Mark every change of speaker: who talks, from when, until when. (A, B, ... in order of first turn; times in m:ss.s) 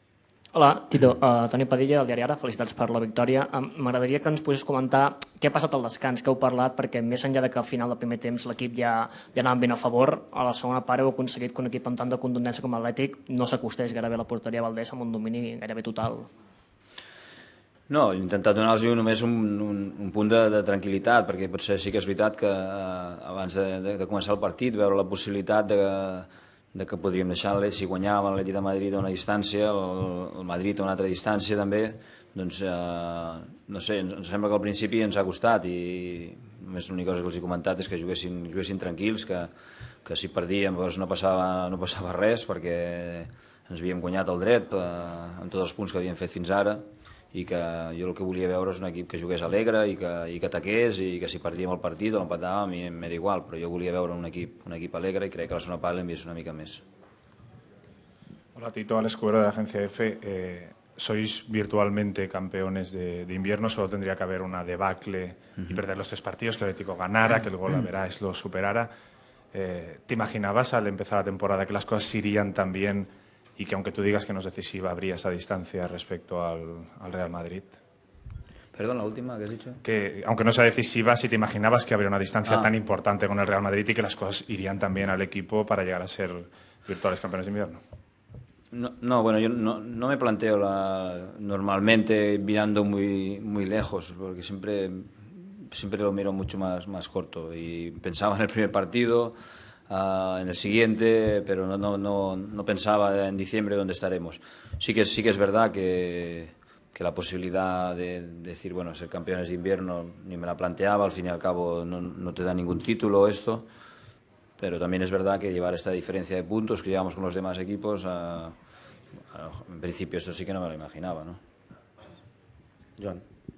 0:00.5-0:16.3 A
0:17.9-0:39.5 B
0:40.0-0:56.8 B
0:58.5-1:08.9 C
1:09.5-1:17.8 C
1:18.7-1:19.8 B
1:19.8-1:27.8 C
1:22.4-1:22.7 B
1:28.7-1:39.3 B
1:39.9-1:53.6 B
1:54.6-1:58.5 B
1:59.3-2:01.4 B